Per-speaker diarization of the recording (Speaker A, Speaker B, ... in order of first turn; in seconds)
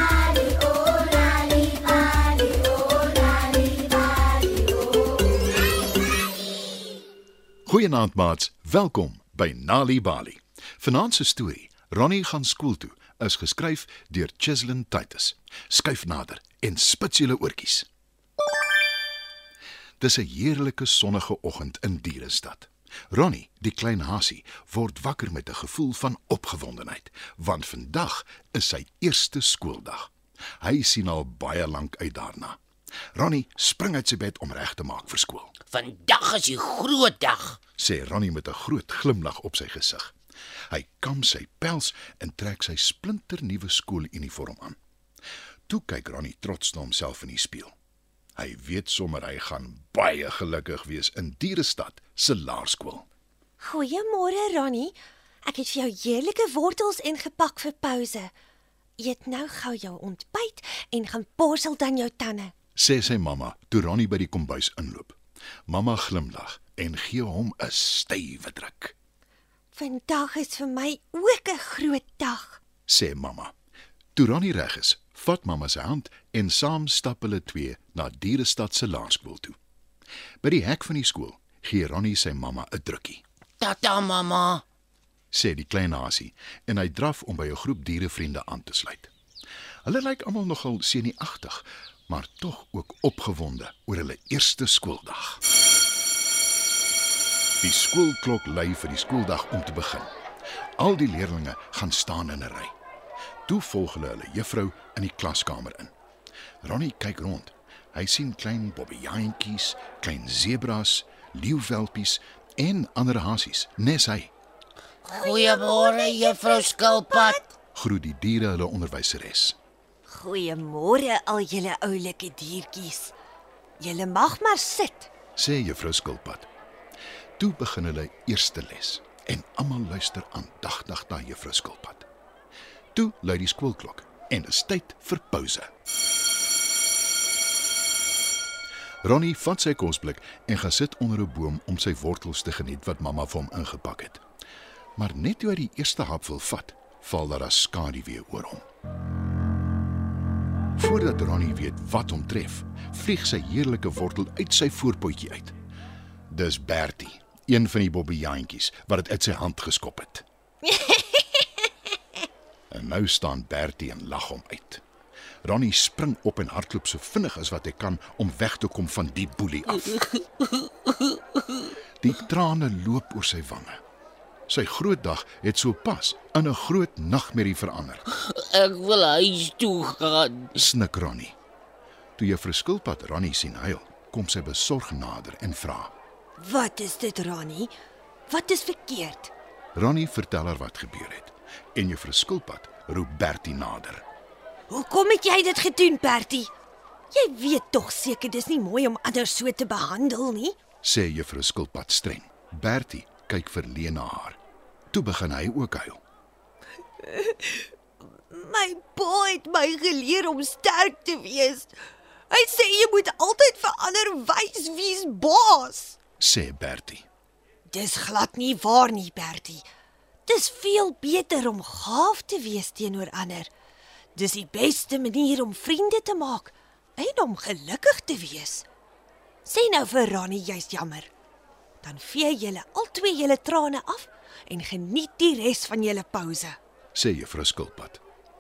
Speaker A: 7.7-17.9, 20.0-32.6, 33.1-35.5, 37.8-40.1, 40.7-44.8, 45.7-47.7, 48.4-53.0, 62.8-68.9, 72.9-73.5, 74.1-79.6, 80.4-83.2, 85.3-89.1, 89.8-95.4, 97.6-100.1, 100.8-102.7, 103.5-105.9, 106.6-114.3, 117.7-119.5, 125.3-126.5, 127.4-132.1, 132.9-135.7, 139.0-144.2, 144.9-148.6, 150.8-155.6, 156.3-160.2, 162.7-164.8, 165.4-170.0, 172.0-173.8, 174.5-178.0, 180.6-181.3, 182.2-185.9, 189.7-194.0, 200.8-204.4, 204.9-206.0, 216.2-217.1, 236.9-238.0
Speaker B: 35.7-37.6, 83.6-84.6, 115.1-117.4, 178.1-180.5
Speaker C: 53.6-58.3, 59.0-62.5, 69.7-72.6, 115.0-117.5, 120.0-123.1, 123.8-125.1, 160.7-161.2, 186.4-187.7, 188.3-189.3, 194.7-196.5, 197.1-200.6, 207.0-207.7, 208.3-211.7, 212.3-216.0, 217.7-219.6, 220.2-223.5, 224.1-228.7, 229.4-231.1, 231.8-236.6